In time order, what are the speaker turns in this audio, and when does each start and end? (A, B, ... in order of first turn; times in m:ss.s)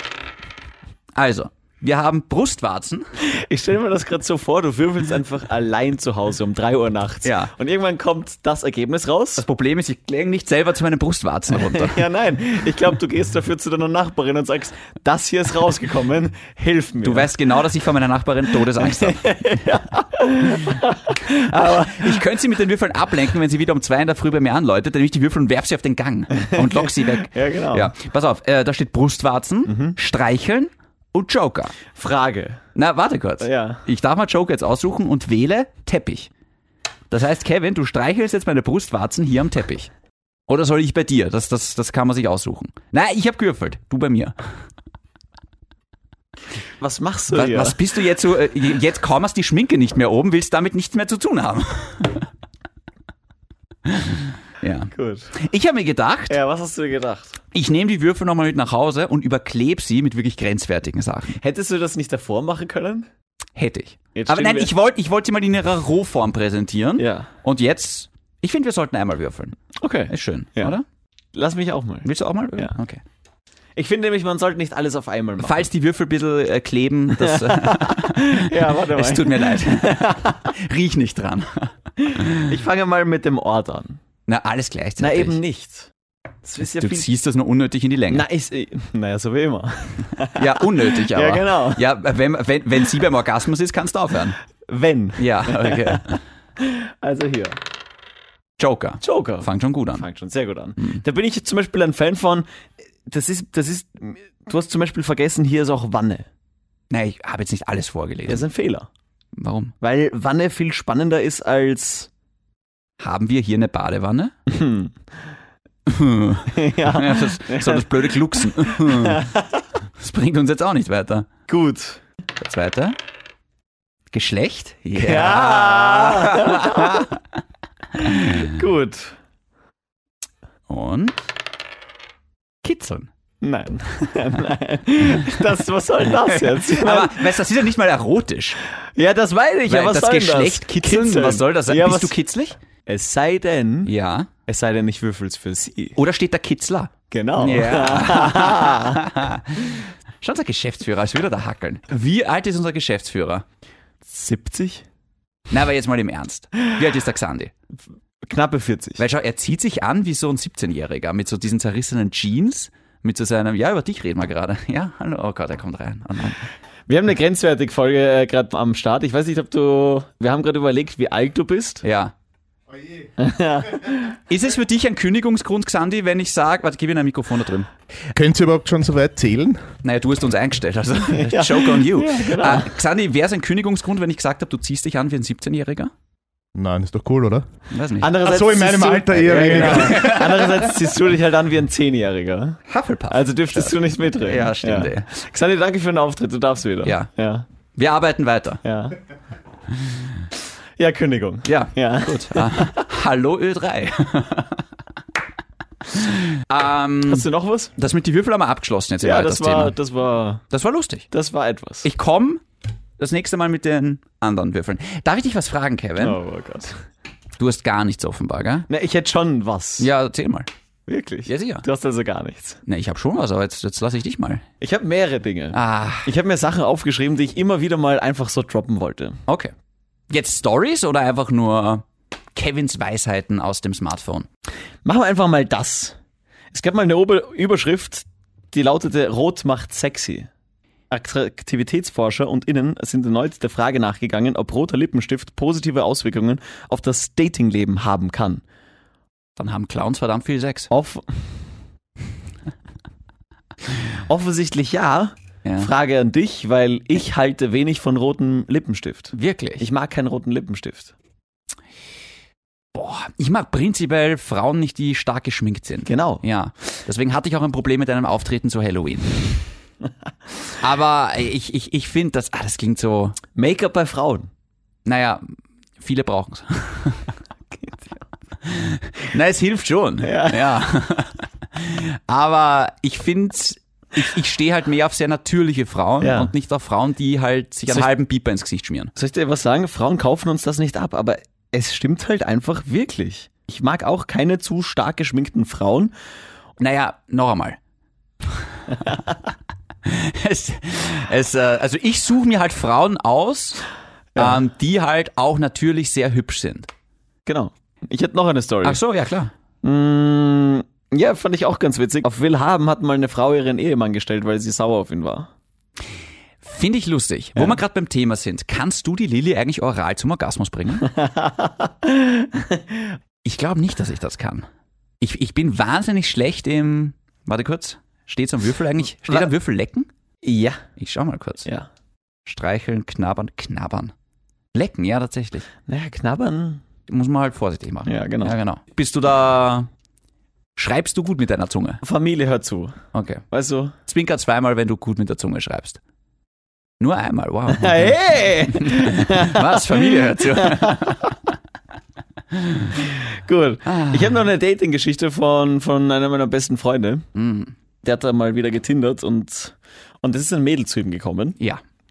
0:01.2-0:03.1 A
0:03.2-0:09.5 B
0:07.2-0:07.5 A
0:09.4-0:12.0 A
0:11.5-0:17.3 B
0:17.0-0:19.6 A
0:18.8-0:22.2 B
0:21.3-0:31.8 A
0:26.3-0:27.9 B
0:29.7-0:30.0 B
0:31.9-0:32.6 B
0:32.8-0:36.3 A
0:33.4-0:33.8 B
0:37.1-0:39.9 A
0:40.5-0:44.4 A
0:46.8-0:47.8 B
0:47.3-0:52.3 A
0:53.9-0:56.4 A
0:54.9-0:55.4 B
0:56.3-0:57.4 B
0:57.5-1:01.4 A
1:01.4-1:03.1 B
1:03.6-1:09.6 A
1:04.2-1:04.7 B
1:07.0-1:07.3 B
1:09.8-1:10.8 B
1:10.1-1:10.8 A
1:11.3-1:12.8 B
1:12.0-1:13.0 A
1:13.8-1:15.7 B
1:15.4-1:22.5 A
1:17.2-1:20.5 B
1:22.0-1:24.0 B
1:24.3-1:25.4 A
1:25.0-1:25.9 B
1:26.4-1:27.1 B
1:26.8-1:28.3 A
1:28.1-1:31.8 B
1:30.4-1:34.4 A
1:34.7-1:37.6 B
1:35.2-1:36.2 A
1:38.6-1:40.0 A
1:39.0-1:42.5 B
1:43.1-1:46.3 B
1:46.9-1:48.4 A
1:48.3-1:48.9 B
1:49.4-1:49.8 A
1:49.8-1:52.1 B
1:53.0-1:54.3 A
1:54.5-1:54.9 B
1:55.9-1:59.3 A
1:56.5-1:59.7 B
2:00.0-2:01.3 A
2:01.5-2:02.0 B
2:02.4-2:03.0 A
2:04.1-2:07.2 A
2:05.0-2:07.1 B
2:08.0-2:08.5 A
2:08.0-2:09.2 B
2:10.7-2:11.2 A
2:12.6-2:13.1 A
2:13.4-2:17.4 B
2:16.2-2:18.6 A
2:19.0-2:22.2 B
2:19.7-2:22.6 A
2:22.9-2:23.9 B
2:23.9-2:24.3 A
2:24.5-2:26.0 B
2:26.0-2:33.4 A
2:27.1-2:29.0 B
2:34.0-2:34.8 B
2:35.5-2:37.5 A
2:38.2-2:39.0 B
2:39.0-2:46.4 A
2:46.9-2:51.8 B
2:51.8-2:52.1 A
2:53.2-2:54.2 B
2:54.3-2:57.7 A
2:58.1-2:59.7 C
2:59.8-3:05.9 A
3:01.1-3:02.7 B
3:06.6-3:07.5 C
3:07.7-3:08.2 A
3:08.0-3:17.5 B
3:08.2-3:10.4 C
3:09.3-3:10.9 A
3:12.7-3:15.1 A
3:16.8-3:17.1 A
3:17.8-3:18.6 A
3:18.6-3:19.0 B
3:20.8-3:22.9 B
3:21.5-3:24.6 A
3:25.8-3:29.8 A
3:27.1-3:27.7 B
3:29.0-3:30.4 B
3:30.5-3:31.1 A
3:31.1-3:31.9 B
3:31.8-3:32.4 A
3:33.0-3:36.2 A
3:36.0-3:36.8 B
3:37.4-3:38.7 A
3:38.7-3:39.9 B
3:39.8-3:40.5 A
3:40.9-3:42.6 B
3:41.3-3:41.6 A
3:42.7-3:44.4 A
3:44.6-3:49.2 B
3:45.5-3:46.1 A
3:49.3-3:49.5 A
3:50.1-3:54.3 A
3:54.8-3:56.0 B
3:56.5-4:00.3 B
4:00.9-4:08.4 B
4:09.4-4:10.7 A
4:10.7-4:11.2 B
4:14.1-4:20.9 B
4:15.4-4:15.7 A
4:19.1-4:19.7 A
4:22.7-4:29.4 A
4:25.8-4:26.2 B
4:30.6-4:33.2 A
4:33.4-4:34.3 B
4:34.8-4:35.2 A
4:35.8-4:37.1 A
4:37.6-4:38.0 B
4:38.4-4:48.9 A
4:40.0-4:40.6 B
4:46.0-4:46.3 B
4:49.0-4:55.9 B
4:56.6-4:57.6 A
4:59.8-5:03.6 A
5:04.2-5:04.4 B
5:04.2-5:06.7 A
5:07.3-5:08.8 B
5:08.6-5:09.3 A
5:09.6-5:15.3 B
5:16.4-5:20.9 A
5:20.9-5:22.9 B
5:23.2-5:24.5 A
5:25.0-5:29.9 A
5:30.2-5:30.6 B
5:30.8-5:31.5 A
5:32.3-5:33.9 A
5:34.5-5:35.5 A
5:35.7-5:36.6 B
5:36.9-5:39.7 A
5:37.9-5:38.4 B
5:40.6-5:41.8 A
5:41.8-5:42.8 B
5:42.9-5:43.2 A
5:43.3-5:43.8 B
5:43.9-5:45.8 A
5:46.8-5:51.1 A
5:47.5-5:51.1 B
5:52.3-5:52.8 A
5:52.7-5:57.1 B
5:53.7-5:54.2 A
5:57.2-5:57.5 A
5:57.8-6:01.4 B